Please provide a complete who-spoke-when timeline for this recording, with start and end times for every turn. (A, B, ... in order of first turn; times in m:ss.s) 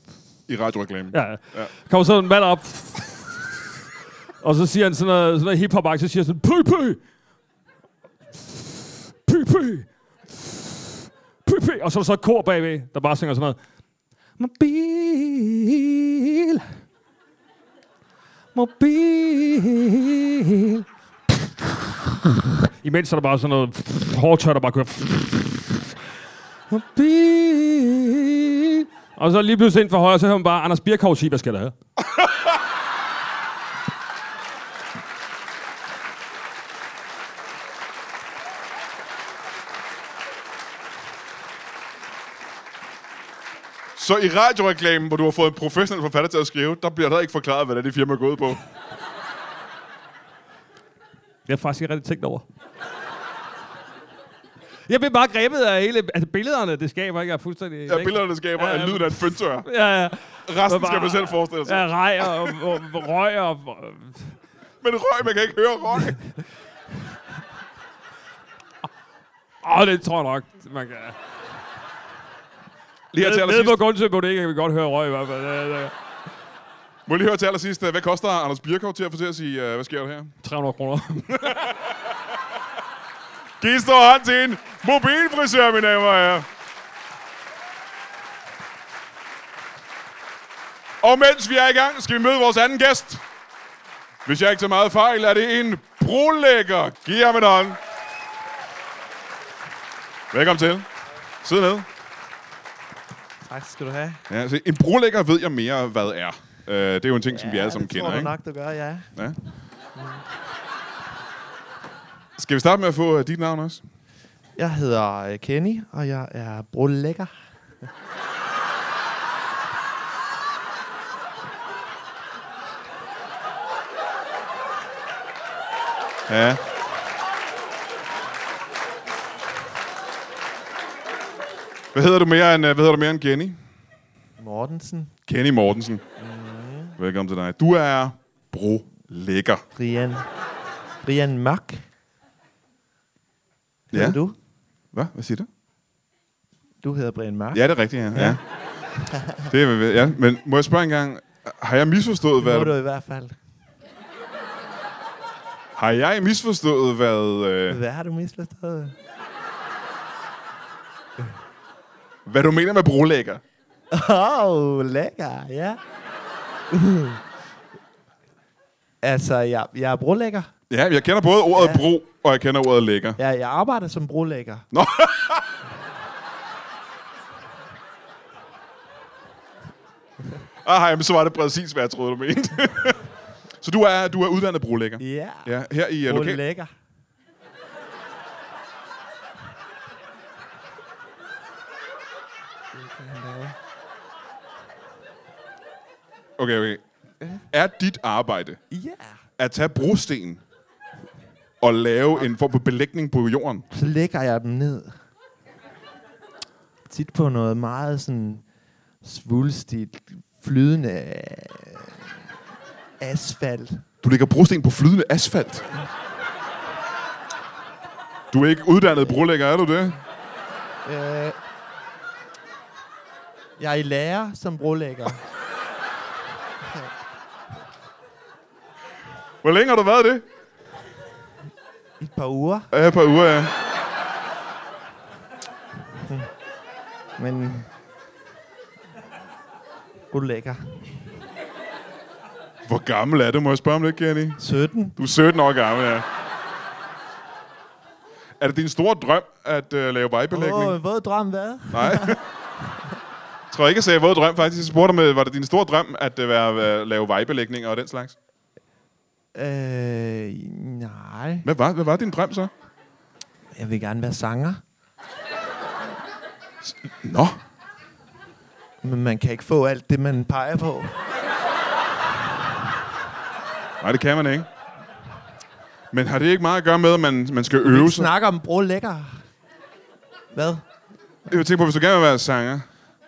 0:00.5-0:01.7 A
0:01.1-0:03.4 B
0:04.4-0:07.0 B
0:09.2-0:10.5 B
0:11.4-0:13.6 B
0:14.4-0:16.6 B
0:18.5-0:20.8 B
0:22.8-0:25.8 B
0:26.7-0:31.7 B
0:44.0-0:48.6 A
0:51.4-0:52.4 B
0:54.9-1:04.3 B
0:57.9-0:59.7 A
1:00.4-1:02.6 A
1:04.8-1:06.2 A
1:09.6-1:11.2 B
1:13.1-1:13.8 A
1:13.2-1:15.9 B
1:17.1-1:20.3 A
1:20.4-1:21.7 B
1:21.3-1:21.9 A
1:23.6-1:26.4 A
1:31.0-1:33.2 A
1:34.2-1:37.8 A
1:40.3-1:40.9 A
1:41.4-1:41.9 A
1:43.4-1:44.2 C
1:44.3-1:48.3 A
1:47.3-1:49.3 C
1:52.4-1:53.8 A
1:54.6-1:57.3 C
2:06.3-2:06.6 A
2:11.9-2:13.6 A
2:14.4-2:15.1 C
2:15.3-2:16.0 A
2:16.2-2:17.0 C
2:17.0-2:19.6 A
2:19.8-2:20.2 C
2:21.0-2:21.8 C
2:23.9-2:24.2 A
2:23.9-2:24.4 C
2:24.9-2:25.5 A
2:26.8-2:28.4 C
2:27.5-2:28.4 A
2:29.0-2:29.4 C
2:29.5-2:32.7 A
2:32.4-2:33.3 C
2:35.8-2:37.8 A
2:37.7-2:38.9 C
2:42.2-2:43.4 A
2:43.9-2:45.8 C
2:46.7-2:47.2 C
2:49.0-2:50.5 C
2:50.7-2:53.2 A
2:51.6-2:51.8 C
2:53.2-2:54.7 C
2:54.7-2:55.4 A
3:00.6-3:03.0 A
3:03.6-3:06.4 A
3:05.0-3:05.5 C
3:06.0-3:06.7 C
3:12.7-3:13.6 C
3:16.4-3:16.8 A
3:17.5-3:18.6 A
3:18.7-3:19.2 C
3:19.4-3:20.4 A
3:21.6-3:23.6 A
3:23.7-3:24.9 C
3:26.9-3:28.4 C
3:29.0-3:31.9 C
3:33.0-3:33.8 C
3:34.0-3:35.7 A
3:38.3-3:40.0 A
3:40.8-3:41.4 C
3:43.6-3:45.2 C
3:49.4-3:50.2 A
3:52.0-3:52.7 C
3:52.7-3:53.5 A
3:56.0-3:56.3 C
3:57.2-3:57.7 C
4:00.1-4:01.0 C
4:02.6-4:04.4 A
4:04.4-4:04.9 C
4:05.0-4:06.0 A
4:08.4-4:10.8 A
4:10.3-4:12.8 C
4:11.7-4:12.2 A
4:13.5-4:18.1 A
4:19.3-4:21.5 C
4:21.4-4:22.5 A
4:23.5-4:24.6 C
4:26.6-4:27.4 A
4:28.8-4:31.0 C
4:33.8-4:34.5 A
4:35.9-4:38.1 A
4:37.6-4:39.2 C
4:40.3-4:40.6 C
4:41.3-4:42.7 A